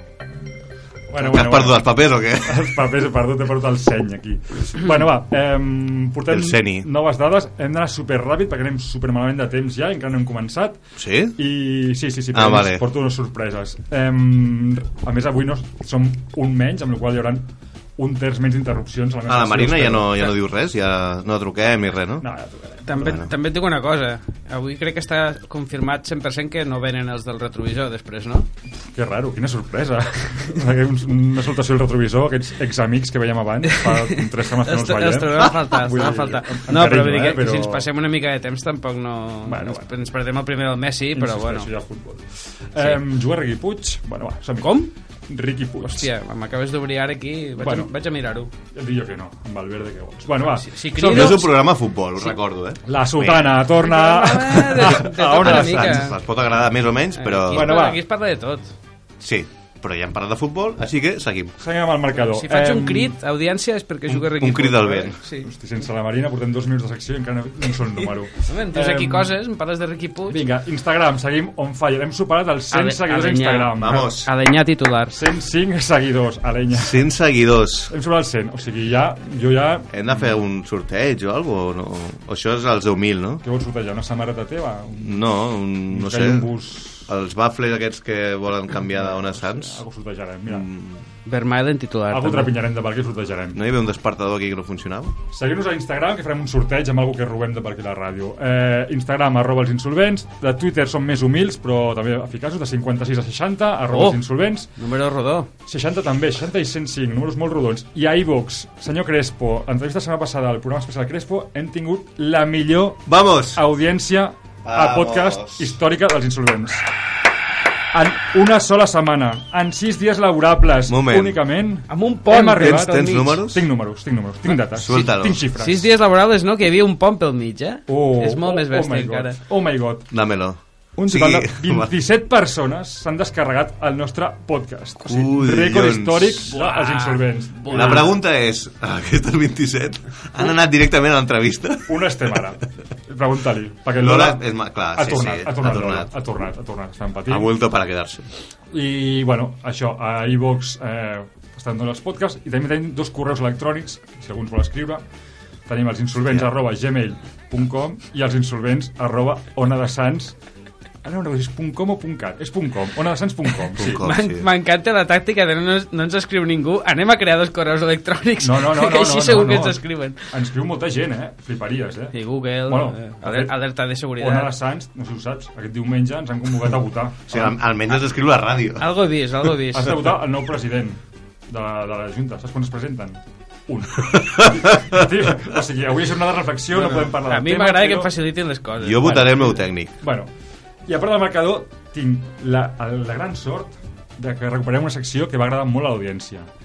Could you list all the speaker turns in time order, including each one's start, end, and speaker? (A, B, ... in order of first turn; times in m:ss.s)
0:01.1-0:01.9 A
0:01.2-0:02.7 B
0:02.4-0:10.8 A
0:06.3-0:06.9 B
0:11.0-0:11.4 B
0:11.4-0:20.3 A
0:12.3-0:12.8 B
0:19.3-0:22.2 B
0:22.2-0:22.9 A
0:22.9-0:28.5 C
0:23.0-0:23.3 B
0:28.9-0:37.9 A
0:33.7-0:41.7 C
0:35.4-0:35.7 B
0:39.4-0:39.9 A
0:41.1-0:46.1 A
0:44.6-0:44.9 C
0:45.8-0:48.5 C
0:47.6-0:47.9 A
0:48.7-0:51.5 A
0:50.5-0:51.5 C
0:51.0-0:53.6 B
0:52.9-0:56.2 A
0:53.8-0:56.2 C
0:55.3-0:57.8 B
0:57.2-0:58.7 C
0:57.5-0:58.0 A
0:59.2-1:01.5 B
1:01.6-1:03.2 A
1:02.2-1:05.5 C
1:04.1-1:05.2 B
1:05.4-1:09.4 A
1:08.4-1:10.4 C
1:10.3-1:14.1 A
1:12.7-1:15.1 C
1:13.8-1:14.3 B
1:15.1-1:17.1 A
1:16.7-1:17.9 B
1:17.9-1:20.4 A
1:19.9-1:23.4 B
1:23.4-1:25.3 A
1:25.0-1:26.5 B
1:25.9-1:27.1 A
1:27.1-1:29.8 B
1:28.8-1:30.7 A
1:30.5-1:31.0 B
1:31.3-1:32.6 C
1:32.1-1:33.6 A
1:33.5-1:35.2 B
1:35.3-1:44.7 A
1:43.9-1:44.2 C
1:44.8-1:45.5 C
1:45.7-1:56.9 A
1:53.1-1:53.6 B
1:54.6-1:55.7 B
1:57.9-2:05.9 A
2:00.9-2:01.4 B
2:01.9-2:03.1 C
2:02.5-2:03.7 B
2:04.7-2:05.4 B
2:05.6-2:09.4 C
2:07.9-2:10.1 A
2:10.1-2:11.9 B
2:11.0-2:18.1 A
2:15.0-2:16.6 B
2:16.5-2:18.0 C
2:17.7-2:22.4 B
2:21.9-2:27.5 A
2:24.0-2:26.1 B
2:27.3-2:28.3 B
2:28.7-2:35.0 A
2:35.7-2:40.4 A
2:41.0-2:44.0 A
2:43.8-2:44.5 B
2:44.0-2:50.2 C
2:48.4-2:53.6 A
2:52.1-2:54.5 C
2:54.2-2:57.6 A
2:57.3-2:58.9 B
2:58.8-2:59.9 C
2:59.7-3:08.1 A
3:04.4-3:05.0 B
3:06.7-3:09.6 C
3:08.8-3:09.9 B
3:09.1-3:09.4 A
3:10.0-3:10.3 A
3:10.9-3:16.5 A